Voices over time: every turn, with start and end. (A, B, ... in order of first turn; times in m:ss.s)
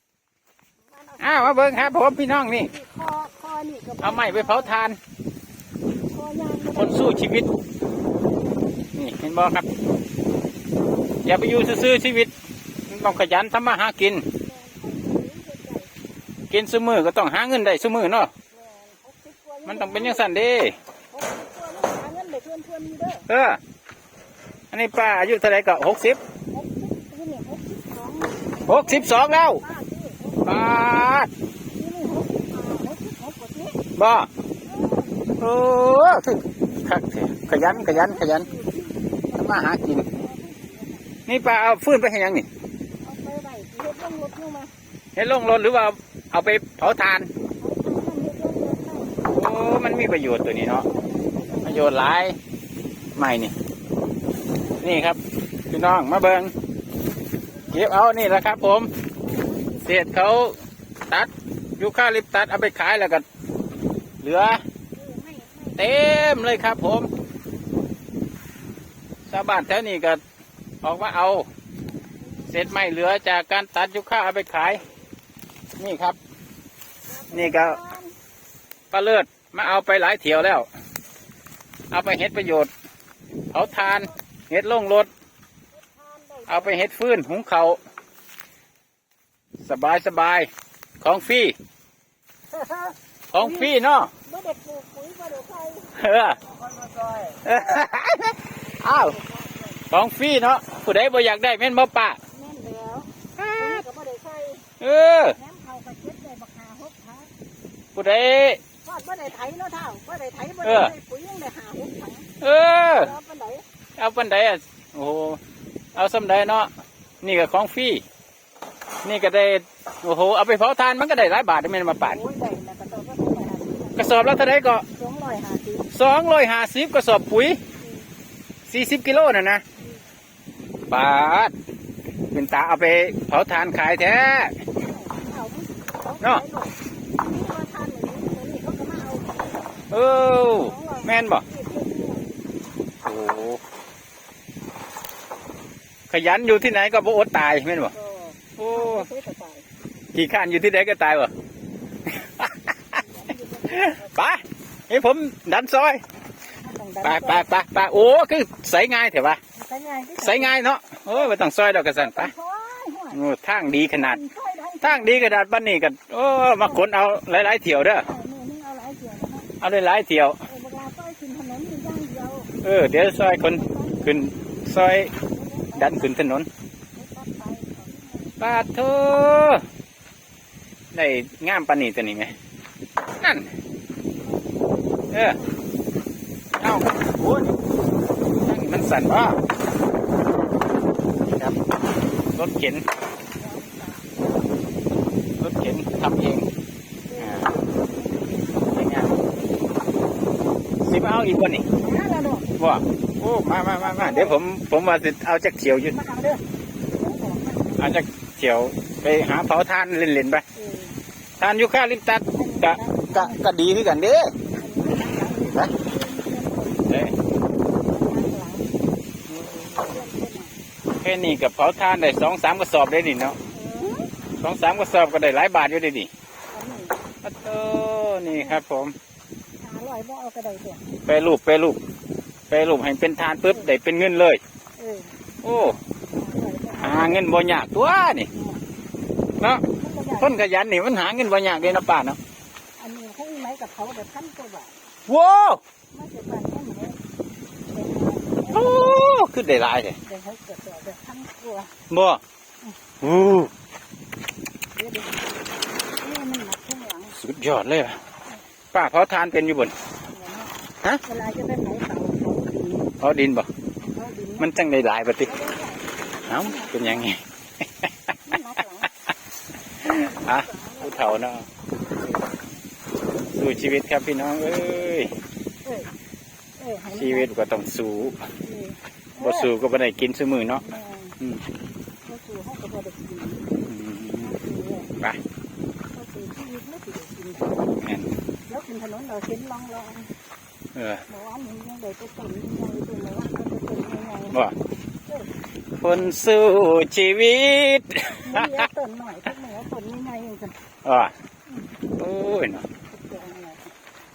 0:00.9-0:04.8 A
0:01.2-0:02.7 B
0:04.0-0:05.0 B
0:06.0-0:07.3 A
0:06.7-0:07.5 B
0:08.9-0:09.7 B
0:11.2-0:12.3 B
0:12.9-0:14.2 B
0:14.4-0:15.9 A
0:16.5-0:18.3 B
0:18.5-0:20.3 A
0:19.6-0:20.8 B
0:21.1-0:23.2 A
0:23.3-0:23.6 B
0:24.7-0:26.2 B
0:26.5-0:30.8 A
0:28.6-0:29.6 B
0:30.4-0:31.3 B
0:31.7-0:33.8 A
0:34.0-0:34.3 B
0:34.6-0:35.4 A
0:35.4-0:38.5 B
0:37.5-0:41.1 A
0:39.4-0:40.1 B
0:41.3-0:42.5 B
0:43.0-0:44.7 A
0:45.2-0:47.3 B
0:47.4-0:49.3 A
0:49.2-0:50.8 B
0:50.5-0:52.0 A
0:51.6-0:52.4 B
0:53.2-0:53.5 B
0:54.8-0:55.2 B
0:55.7-0:56.5 B
0:57.7-0:58.9 B
0:59.2-0:59.9 A
0:59.8-1:00.5 B
1:01.1-1:03.2 B
1:04.2-1:04.6 B
1:04.9-1:06.4 A
1:05.8-1:07.1 B
1:09.3-1:10.2 B
1:10.8-1:11.5 B
1:12.2-1:12.8 A
1:12.5-1:14.8 B
1:15.8-1:16.2 B
1:17.1-1:18.1 A
1:17.3-1:17.8 B
1:18.9-1:20.7 B
1:21.9-1:22.7 B
1:23.5-1:25.1 B
1:23.5-1:24.2 A
1:25.7-1:26.8 A
1:26.5-1:27.8 B
1:29.6-1:30.5 B
1:31.0-1:31.5 B
1:32.5-1:33.7 A
1:33.3-1:34.1 B
1:34.2-1:37.5 A
1:36.0-1:36.4 B
1:37.4-1:39.2 B
1:38.8-1:39.8 A
1:39.9-1:42.2 B
1:42.3-1:44.7 A
1:43.4-1:43.8 B
1:44.8-1:45.4 B
1:45.3-1:47.3 A
1:47.9-1:48.6 B
1:48.8-1:52.3 A
1:50.6-1:50.9 B
1:52.4-1:53.1 B
1:52.9-1:53.6 A
1:54.0-1:55.4 B
1:55.9-1:56.7 B
1:57.2-1:58.0 B
1:59.0-2:02.2 B
2:02.0-2:04.4 A
2:04.0-2:04.8 B
2:04.9-2:05.9 A
2:05.9-2:07.6 B
2:08.7-2:09.6 B
2:10.9-2:11.5 B
2:12.3-2:14.5 B
2:14.8-2:19.7 A
2:19.9-2:21.4 B
2:20.5-2:22.3 A
2:23.0-2:23.6 B
2:26.1-2:27.9 B
2:27.9-2:29.6 A
2:28.6-2:29.1 B
2:30.1-2:31.3 B
2:32.1-2:32.7 B
2:32.9-2:34.1 A
2:33.7-2:36.0 B
2:36.6-2:37.5 A
2:37.0-2:39.4 B
2:39.6-2:40.5 A
2:40.2-2:42.3 B
2:41.9-2:43.2 A
2:43.1-2:44.2 B
2:43.9-2:45.4 A
2:44.8-2:48.1 B
2:46.6-2:46.9 A
2:48.0-2:49.5 A
2:49.6-2:50.4 B
2:50.4-2:52.5 A
2:52.6-2:55.1 B
2:53.2-2:54.3 A
2:55.3-2:56.2 A
2:55.7-2:56.5 B
2:56.9-2:58.5 A
2:58.4-2:59.6 B
3:00.9-3:02.3 B
3:03.2-3:03.5 B
3:04.3-3:05.5 A
3:05.1-3:05.4 B
3:06.6-3:07.6 B
3:08.4-3:09.4 B
3:10.1-3:11.1 A
3:12.3-3:12.8 B
3:13.3-3:14.6 A
3:15.4-3:16.5 B
3:17.1-3:19.2 A
3:17.2-3:17.5 B
3:18.7-3:19.2 B
3:20.8-3:21.6 B
3:21.6-3:22.5 A
3:22.6-3:25.9 B
3:23.7-3:24.4 A
3:25.9-3:27.9 A
3:27.8-3:30.4 B
3:30.5-3:31.0 A
3:31.4-3:34.3 B
3:32.3-3:33.4 A
3:34.5-3:38.7 A
3:36.8-3:37.2 B
3:39.3-3:40.0 B
3:39.8-3:40.5 A
3:41.0-3:43.4 B
3:43.5-3:44.1 A
3:44.4-3:46.1 B
3:46.5-3:47.0 A
3:47.2-3:48.9 B
3:48.3-3:48.6 A
3:49.6-3:50.9 A
3:51.0-3:51.8 B
3:52.5-3:54.4 B
3:54.8-3:55.1 A
3:55.4-3:55.8 B
3:56.1-3:57.2 A
3:56.8-3:58.3 B
3:58.3-3:58.6 A
3:59.8-4:00.4 A
4:00.2-4:02.2 B
4:02.8-4:04.8 A
4:05.1-4:05.6 B
4:05.9-4:07.0 A
4:07.7-4:09.1 A
4:08.5-4:10.0 B
4:10.0-4:11.7 A
4:11.9-4:12.2 B
4:13.0-4:13.5 B
4:14.8-4:15.3 A
4:16.0-4:17.2 A
4:17.2-4:18.0 B
4:18.7-4:19.7 B
4:20.1-4:20.5 A
4:21.0-4:22.9 A
4:23.0-4:23.5 B
4:23.8-4:24.5 A
4:24.4-4:25.3 B
4:25.2-4:27.1 A
4:26.3-4:27.2 B
4:28.2-4:28.9 A
4:29.8-4:31.4 B
4:29.9-4:31.4 A
4:33.3-4:35.1 B
4:35.6-4:35.9 A
4:36.6-4:37.3 A
4:36.9-4:38.2 B
4:38.4-4:39.5 A
4:39.2-4:40.6 B
4:40.6-4:41.2 A
4:42.0-4:43.5 A
4:43.6-4:44.3 B
4:44.2-4:44.9 A
4:45.9-4:47.8 A
4:47.8-4:48.1 B
4:48.5-4:50.1 A
4:50.7-4:51.0 B
4:51.1-4:54.4 A
4:55.0-4:55.3 A
4:55.8-4:58.7 B
4:58.2-5:00.6 A
5:00.8-5:01.1 B
5:02.0-5:02.6 B
5:02.9-5:03.7 A